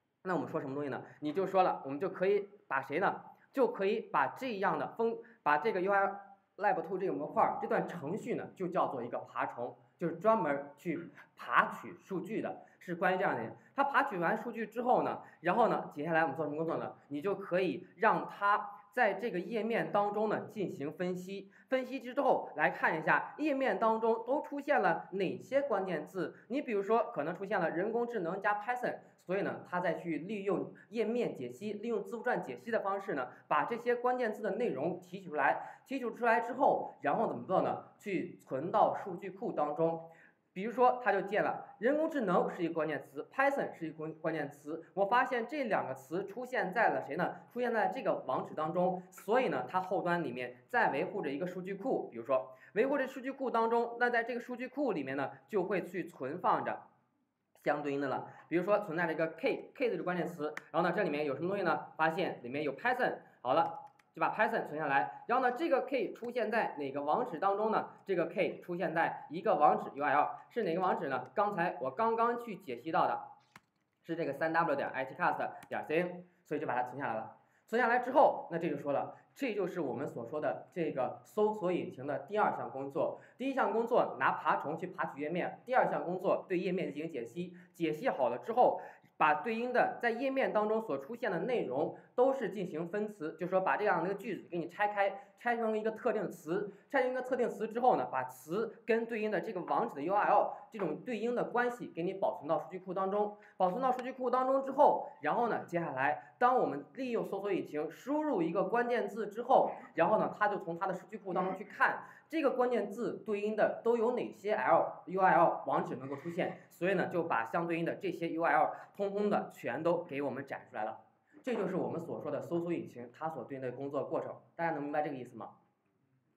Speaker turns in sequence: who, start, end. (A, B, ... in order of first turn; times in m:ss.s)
0:00.2-0:56.8 A
0:57.6-1:13.3 A
1:14.0-2:05.5 A